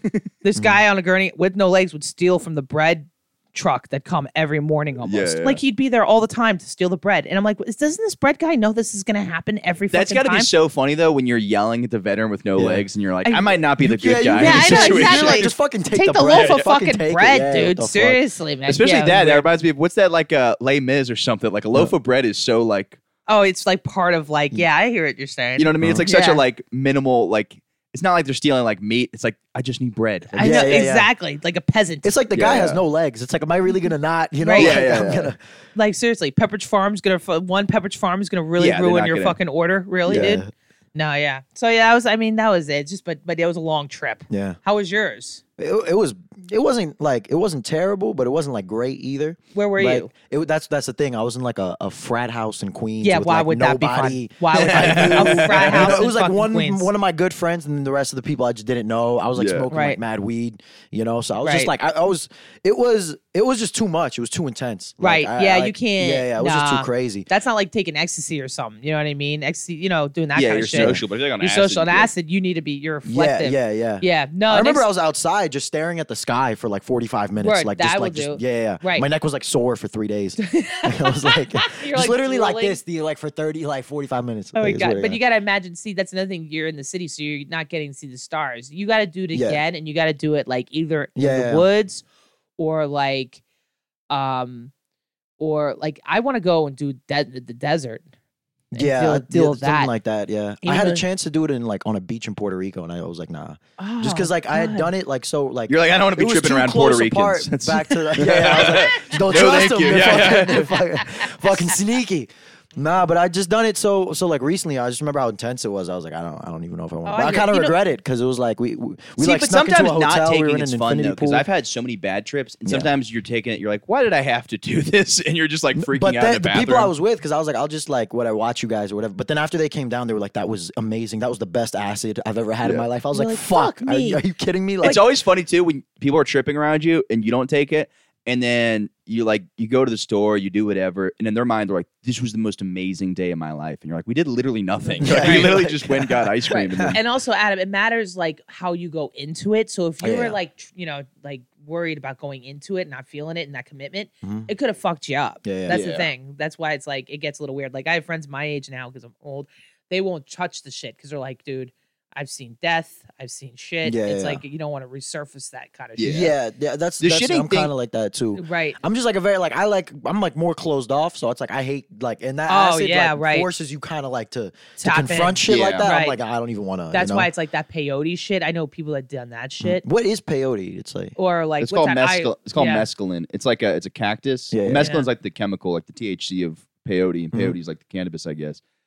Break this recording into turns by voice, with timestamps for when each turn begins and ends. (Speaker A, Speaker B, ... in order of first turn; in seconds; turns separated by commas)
Speaker A: 0.4-10.5, Speaker B: 5.0-5.6, Speaker B: 9.9-15.5, Speaker C: 12.6-12.8, Speaker A: 13.2-13.5, Speaker C: 13.8-18.2, Speaker A: 14.3-19.5, Speaker B: 16.3-16.6, Speaker B: 18.7-23.0, Speaker A: 23.3-26.4, Speaker B: 25.6-30.8, Speaker C: 25.8-26.1, Speaker C: 30.3-31.1, Speaker A: 30.4-32.1, Speaker C: 32.0-35.4, Speaker B: 32.3-32.8, Speaker A: 34.4-35.1, Speaker B: 34.6-35.3, Speaker A: 35.7-45.4, Speaker B: 38.6-39.4, Speaker C: 40.1-40.5, Speaker C: 44.3-44.6, Speaker C: 45.6-67.3, Speaker A: 49.5-50.1, Speaker A: 53.0-56.9, Speaker B: 54.6-56.0, Speaker B: 59.4-59.7, Speaker A: 59.7-60.0, Speaker A: 61.4-61.7, Speaker A: 65.0-74.9, Speaker B: 70.3-72.1, Speaker C: 70.7-71.0, Speaker C: 73.0-85.2, Speaker A: 77.4-79.0, Speaker A: 80.5-82.8, Speaker A: 84.5-92.0, Speaker C: 89.3-89.6, Speaker C: 91.2-91.6, Speaker A: 92.6-93.4, Speaker A: 94.1-94.7, Speaker A: 95.4-98.0, Speaker A: 98.7-99.9, Speaker C: 98.7-121.5, Speaker A: 100.6-101.0, Speaker A: 103.8-104.9, Speaker B: 105.7-110.8, Speaker A: 117.0-117.7, Speaker B: 119.2-126.9, Speaker C: 125.8-135.0, Speaker A: 133.1-134.2, Speaker B: 134.8-147.0, Speaker A: 144.9-145.5, Speaker C: 145.0-147.0, Speaker A: 146.5-166.3, Speaker C: 150.0-150.4, Speaker C: 154.2-154.5, Speaker C: 155.4-155.8, Speaker B: 155.7-156.1, Speaker C: 163.8-164.4, Speaker B: 166.0-166.3, Speaker C: 166.0-177.3, Speaker B: 167.0-167.7, Speaker A: 168.3-168.8, Speaker A: 172.5-173.5, Speaker A: 174.8-176.2, Speaker B: 175.5-175.9, Speaker A: 176.9-179.8, Speaker C: 179.6-181.1, Speaker A: 181.2-182.8, Speaker B: 181.6-188.6, Speaker C: 184.5-184.9, Speaker A: 184.8-185.1